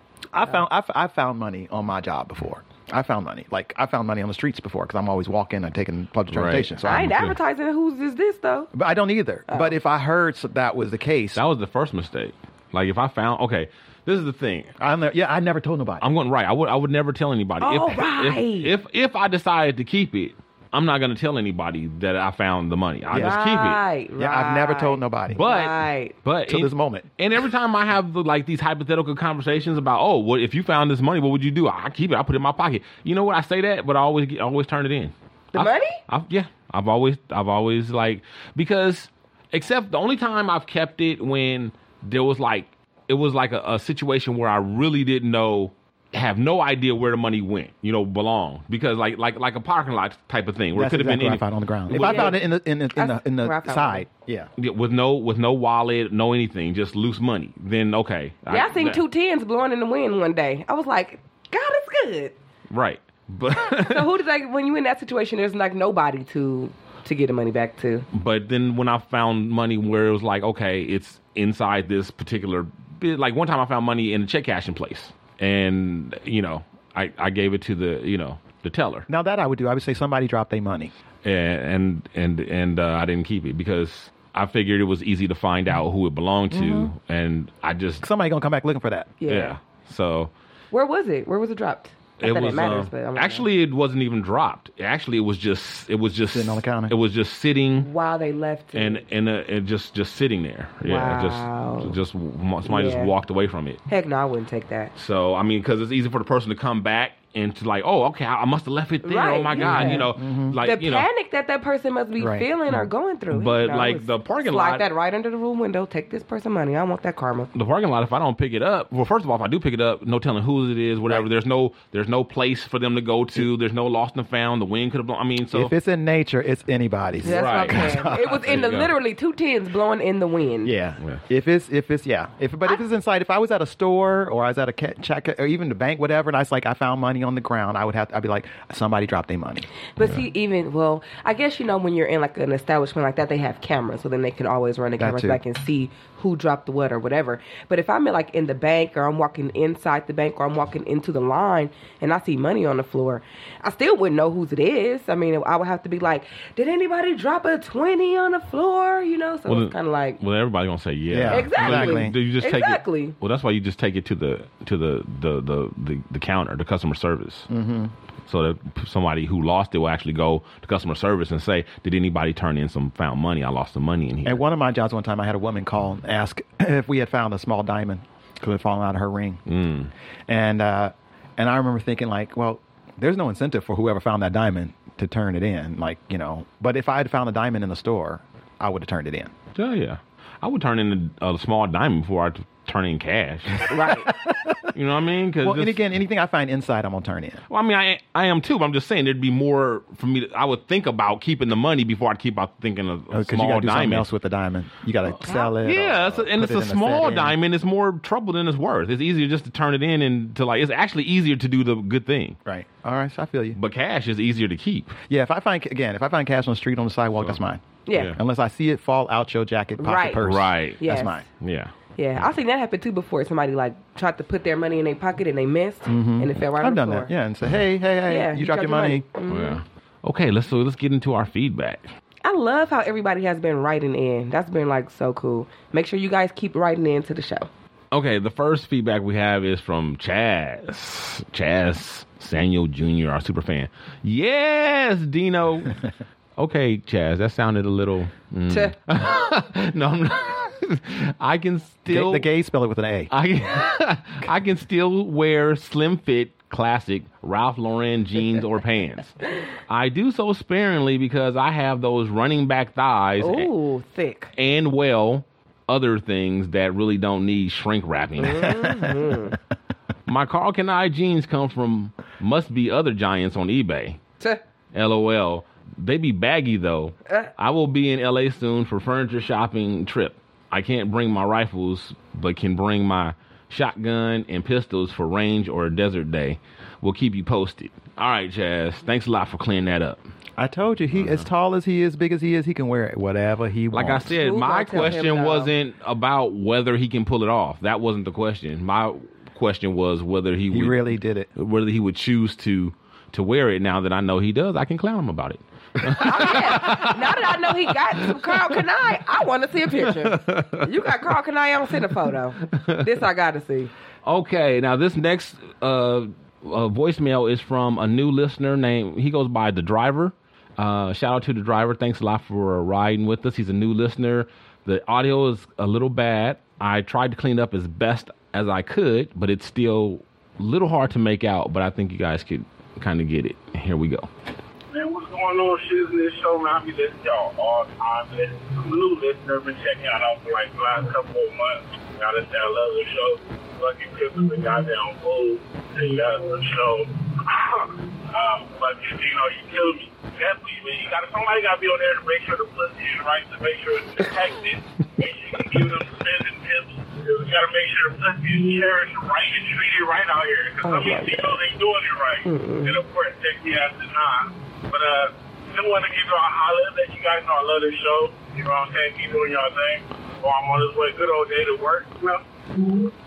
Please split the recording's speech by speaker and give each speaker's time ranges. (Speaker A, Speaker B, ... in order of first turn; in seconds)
Speaker A: 0.3-7.3, 8.7-11.4, 14.8-16.0, 23.1-23.4, 24.1-25.4, 26.5-27.1, 50.7-54.5, 79.1-80.9, 86.5-86.9, 88.0-89.1, 96.3-96.9, 109.6-110.6, 112.2-112.5, 125.5-128.6, 130.6-139.7, 145.0-145.4, 161.1-162.2, 167.5-167.9, 174.2-179.4, 180.3-189.3, 193.8-194.7, 195.4-197.4, 203.1-207.4, 212.4-213.6, 215.1-221.2, 225.8-229.0, 251.9-253.1, 290.4-294.1, 300.5-301.3
Speaker B: 6.3-7.3, 11.3-14.7, 16.0-23.8, 25.3-52.4, 54.6-59.0, 62.7-64.1, 68.1-79.0, 81.2-88.0, 89.3-90.3, 92.2-97.9, 98.7-103.8, 104.9-111.1, 113.3-114.9, 117.5-125.7, 127.2-128.9, 159.5-167.5, 168.3-174.4, 179.5-179.9, 189.5-193.7, 194.7-195.8, 197.5-204.1, 205.6-212.4, 213.6-215.0, 217.9-218.2, 220.2-220.8, 221.4-221.7, 229.3-231.8, 237.9-245.8, 246.4-252.3, 253.1-263.5, 264.4-269.0, 270.1-274.0, 274.7-290.0, 290.9-291.2, 293.7-300.8, 301.4-307.4, 307.9-308.6, 309.9-310.6, 312.6-312.8, 314.0-334.1
Speaker C: 6.8-8.7, 17.6-18.7, 23.1-26.1, 35.5-36.0, 51.9-52.4, 52.9-54.0, 58.5-62.3, 63.7-68.1, 89.2-89.6, 90.7-93.5, 97.8-99.0, 100.8-102.0, 102.6-103.1, 103.9-104.9, 109.0-110.1, 110.6-117.5, 127.2-130.7, 139.9-160.2, 161.3-163.1, 193.7-194.1, 205.2-205.5, 217.8-218.1, 219.8-220.2, 220.8-221.2, 221.9-227.1, 228.1-229.6, 232.2-237.5, 248.5-248.7, 263.2-264.3, 268.2-269.4, 294.1-295.5, 305.9-313.7, 360.6-361.4, 362.2-362.8
Speaker D: 334.7-372.9